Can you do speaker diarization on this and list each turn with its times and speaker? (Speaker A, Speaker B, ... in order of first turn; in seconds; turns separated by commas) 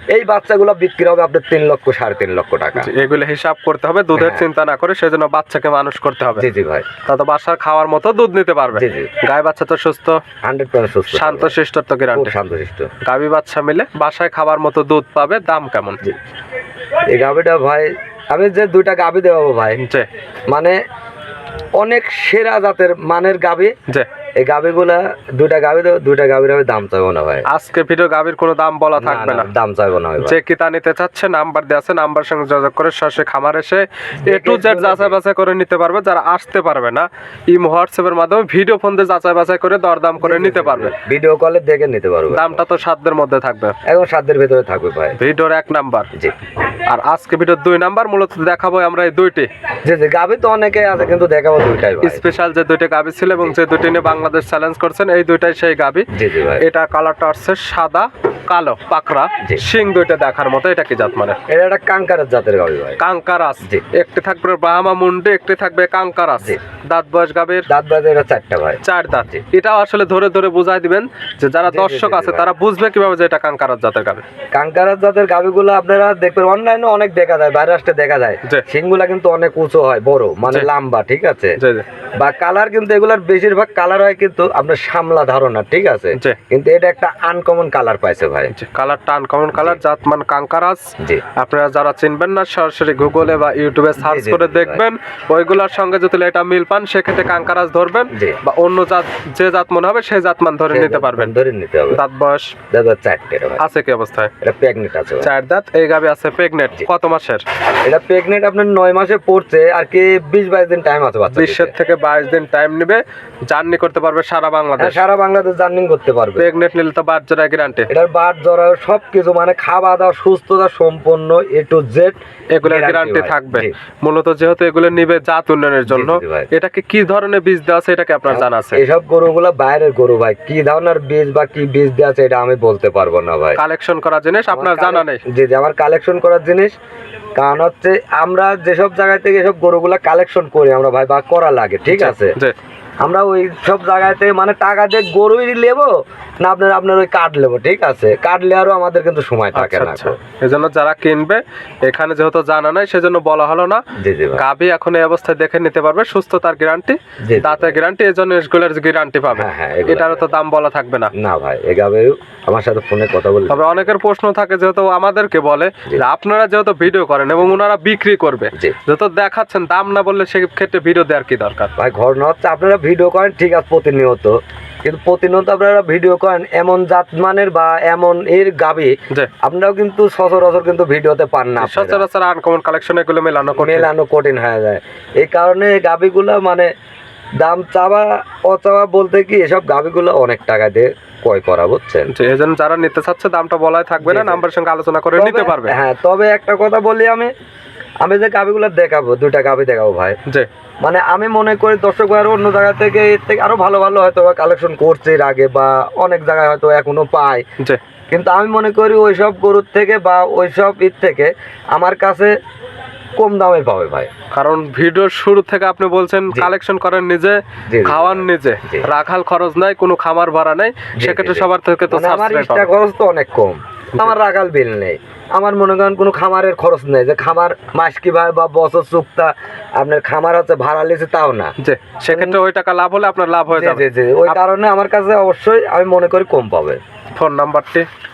Speaker A: 0.1-2.9, Speaker B: 2.8-6.5, Speaker A: 4.2-4.4, Speaker A: 6.3-6.9, Speaker B: 7.0-10.2, Speaker A: 8.7-9.1, Speaker A: 10.4-11.5, Speaker B: 11.1-12.3, Speaker A: 12.1-12.9, Speaker B: 13.0-16.0, Speaker A: 17.1-19.8, Speaker B: 19.8-20.1, Speaker A: 20.5-20.8, Speaker A: 21.8-23.7, Speaker A: 24.4-27.4, Speaker B: 27.5-29.5, Speaker A: 29.0-30.4, Speaker B: 30.2-40.9, Speaker A: 34.2-35.1, Speaker A: 40.2-42.6, Speaker B: 42.3-43.7, Speaker A: 43.9-45.2, Speaker B: 45.2-46.1, Speaker B: 46.9-49.5, Speaker A: 49.9-52.2, Speaker B: 52.0-61.4, Speaker A: 56.1-56.6, Speaker A: 61.5-63.0, Speaker B: 63.0-67.7, Speaker A: 67.7-69.4, Speaker B: 68.8-74.2, Speaker A: 71.7-72.5, Speaker A: 74.5-81.6, Speaker B: 81.6-81.8, Speaker A: 82.2-88.5, Speaker B: 88.5-101.3, Speaker A: 89.5-89.8, Speaker A: 94.0-94.8, Speaker A: 98.1-98.4, Speaker A: 100.7-102.0, Speaker B: 101.9-102.5, Speaker A: 102.7-103.6, Speaker B: 103.6-104.3, Speaker A: 104.4-105.3, Speaker B: 105.2-107.4, Speaker A: 107.8-111.7, Speaker B: 111.3-115.0, Speaker A: 114.8-116.5, Speaker B: 116.4-117.9, Speaker A: 117.9-123.7, Speaker B: 122.5-128.8, Speaker A: 125.9-126.5, Speaker A: 128.3-133.6, Speaker B: 133.6-135.2, Speaker A: 134.5-136.7, Speaker A: 137.4-142.3, Speaker B: 141.9-142.5, Speaker A: 143.0-150.2, Speaker B: 149.5-153.8, Speaker A: 153.9-154.4, Speaker B: 154.3-161.1, Speaker A: 157.2-157.8, Speaker A: 159.3-160.3, Speaker A: 161.1-163.9, Speaker B: 163.5-171.7, Speaker A: 171.8-182.0, Speaker B: 181.6-183.9, Speaker A: 183.6-186.7, Speaker A: 187.4-192.1, Speaker B: 192.1-195.8, Speaker A: 194.0-194.4, Speaker A: 195.2-197.3, Speaker A: 198.0-200.2, Speaker A: 200.8-207.4, Speaker A: 208.1-212.3, Speaker A: 213.2-214.1, Speaker B: 214.3-222.7, Speaker A: 217.7-218.9, Speaker A: 221.0-231.5, Speaker B: 231.6-234.4, Speaker A: 232.1-232.4, Speaker A: 233.5-236.8, Speaker B: 237.2-237.9